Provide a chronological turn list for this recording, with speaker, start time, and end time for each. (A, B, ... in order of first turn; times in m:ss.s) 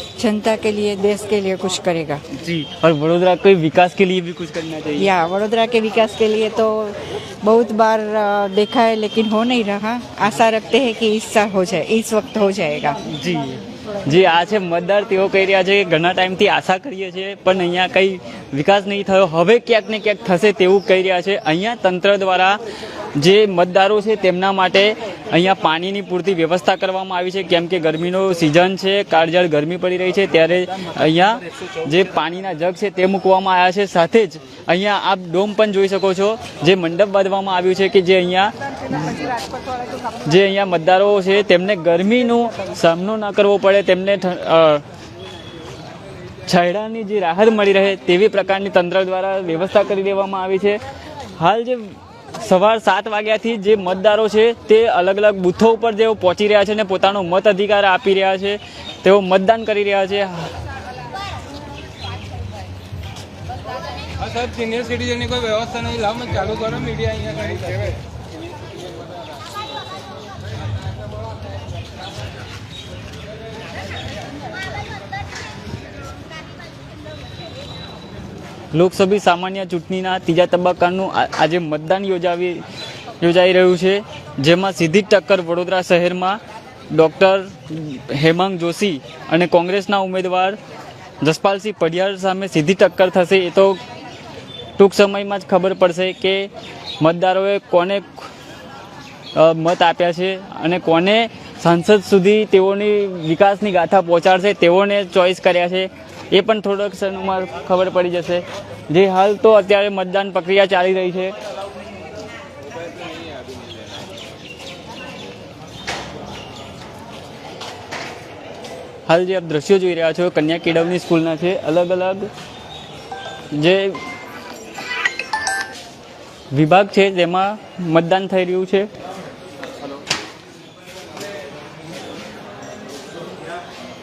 0:00.2-0:02.2 A
0:02.3-0:05.1 B
0:05.0-0:13.0 A
0:13.1-0:22.6 B
0:23.2-0:39.3 B
0:40.2-0:44.8 B
0:46.5-0:50.8 B
0:51.4-1:00.5 B
1:04.4-1:07.6 C
1:18.7-1:22.6 B
1:23.2-1:26.4 B
1:26.9-1:30.6 B
1:31.2-1:33.8 B
1:34.8-1:38.3 B
1:39.3-1:51.3 B
1:59.1-2:02.3 B
2:03.5-2:04.0 B
2:06.5-2:08.9 B